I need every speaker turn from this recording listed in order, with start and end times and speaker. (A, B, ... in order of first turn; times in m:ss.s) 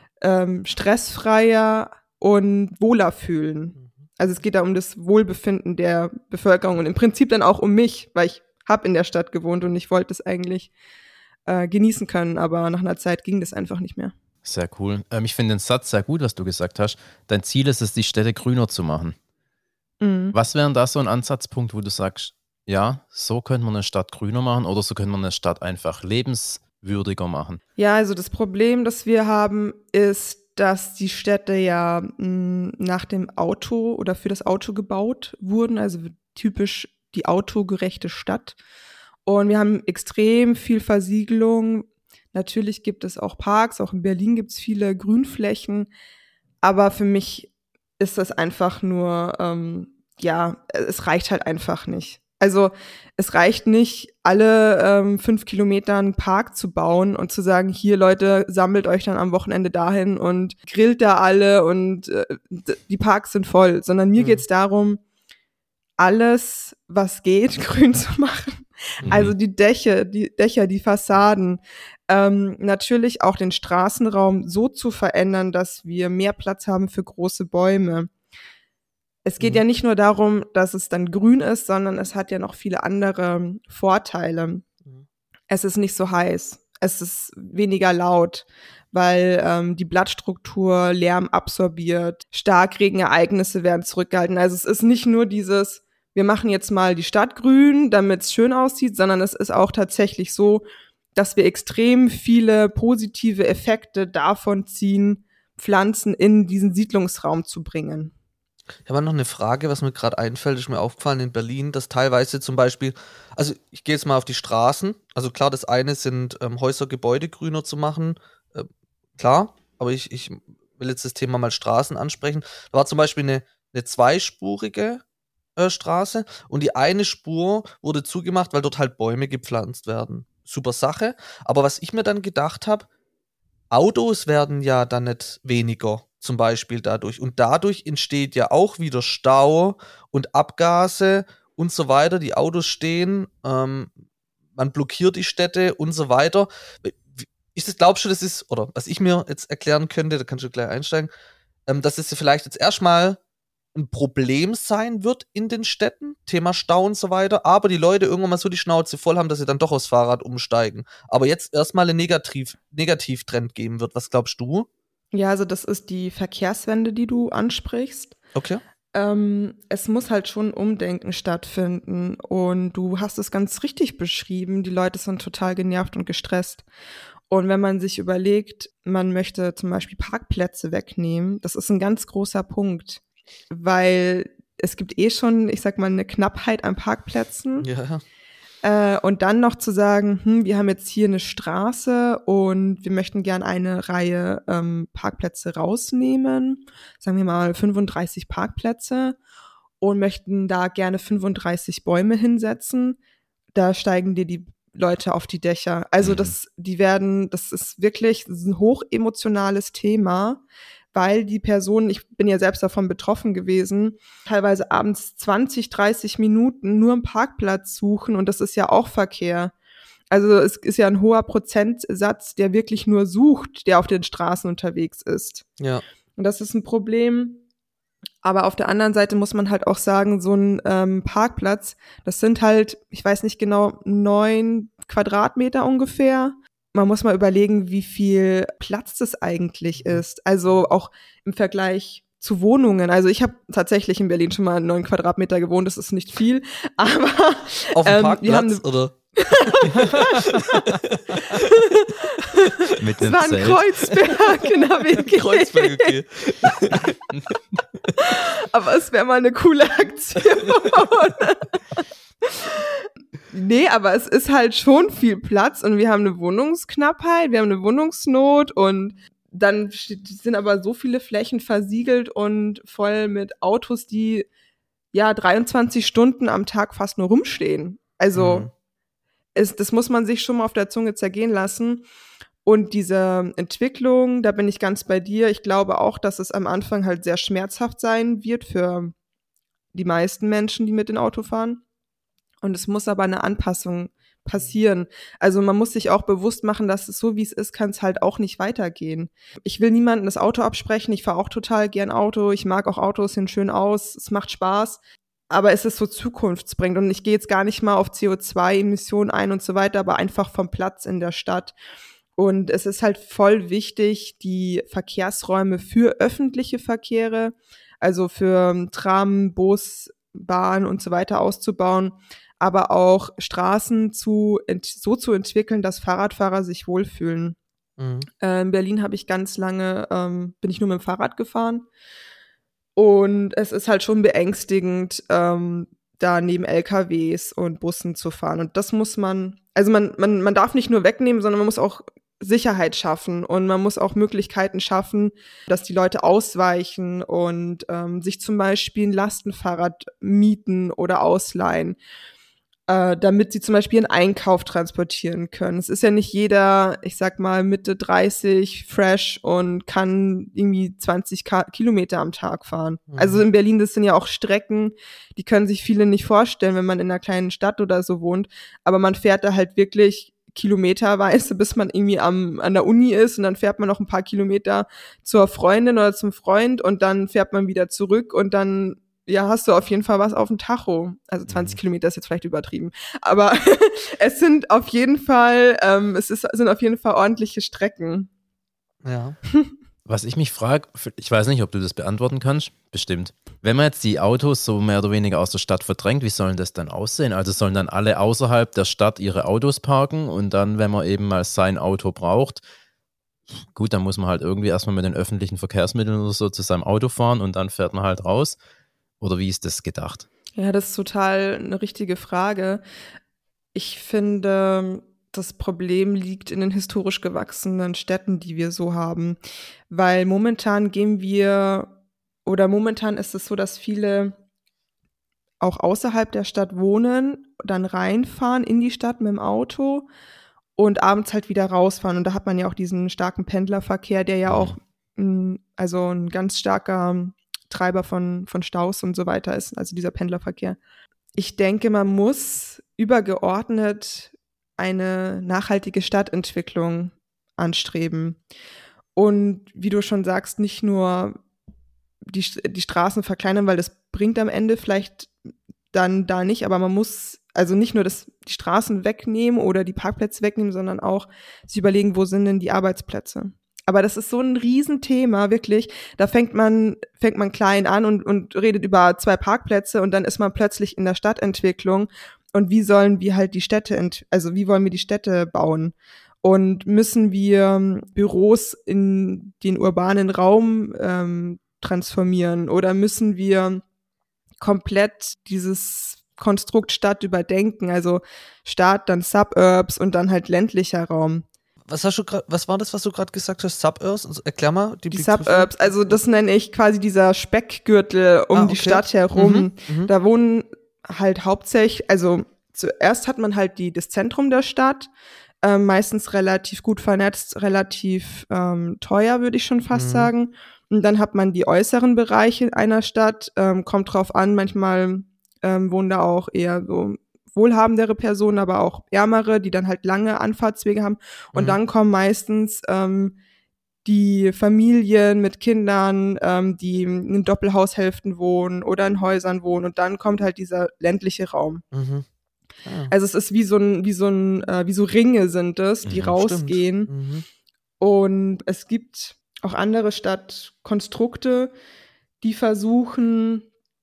0:00.2-0:10.7 A
0:11.5-0:14.1 A
0:14.4-0:19.2 B
0:20.0-0:20.4 A
0:20.3-0:27.6 B
0:27.8-0:38.6 A
0:39.3-0:45.9 A
0:46.6-1:05.0 A
1:04.2-1:04.4 C
1:06.0-1:18.1 A
1:09.0-1:09.4 B
1:09.1-1:09.3 C
1:19.2-1:24.6 A
1:25.5-1:48.1 A
1:48.9-2:05.0 C
2:05.6-2:12.9 C
2:13.7-2:23.9 C
2:24.6-2:31.1 C
2:31.7-2:33.2 C
2:33.8-2:44.7 C
2:45.1-2:48.2 A
2:48.4-2:48.6 C
2:48.9-2:56.6 A
2:57.3-3:07.7 A
3:07.6-3:08.0 C
3:08.6-3:19.2 A
3:19.8-3:23.0 A
3:23.5-3:30.4 A
3:26.0-3:26.4 B
3:30.9-3:39.5 A
3:40.1-3:45.5 A
3:46.2-3:47.4 A
3:48.2-4:08.6 A
3:59.8-4:00.0 C
4:07.8-4:11.9 C
4:09.1-4:10.6 A
4:11.4-4:11.6 A
4:12.2-4:12.5 A
4:12.8-4:13.6 B
4:13.0-4:16.0 A
4:15.0-4:17.0 C
4:18.0-4:34.3 A
4:34.9-4:38.5 A
4:38.2-4:38.5 C
4:39.4-4:41.9 A
4:42.4-4:49.0 A
4:49.7-4:51.6 A
4:52.4-5:11.5 A
5:12.2-5:27.4 A
5:27.8-5:28.1 C
5:28.2-5:31.7 A
5:32.8-5:51.8 A
5:52.7-6:28.1 A
6:02.9-6:03.2 C
6:21.3-6:21.6 B
6:28.8-6:29.2 C
6:29.9-6:42.4 B
6:43.3-6:48.4 B
6:49.0-6:50.1 B
6:50.4-6:52.6 A
6:53.5-6:59.2 A
6:59.7-7:01.7 A
7:02.3-7:04.2 A
7:05.4-7:09.9 A
7:10.6-7:20.6 A
7:14.3-7:14.6 B
7:21.2-7:28.2 A
7:29.0-7:31.2 A
7:32.1-7:35.1 A
7:35.7-8:03.6 A
8:04.4-8:11.3 A
8:11.7-8:16.0 C
8:14.9-8:24.9 A
8:18.3-8:19.9 C
8:25.4-8:43.2 A
8:29.7-8:30.1 C
8:43.8-8:51.6 A
8:51.7-8:52.1 C
8:52.6-8:52.9 C
8:52.9-8:56.9 A
8:55.8-8:56.2 B
8:56.2-8:57.3 C
8:57.8-9:01.5 A
9:02.2-9:03.5 A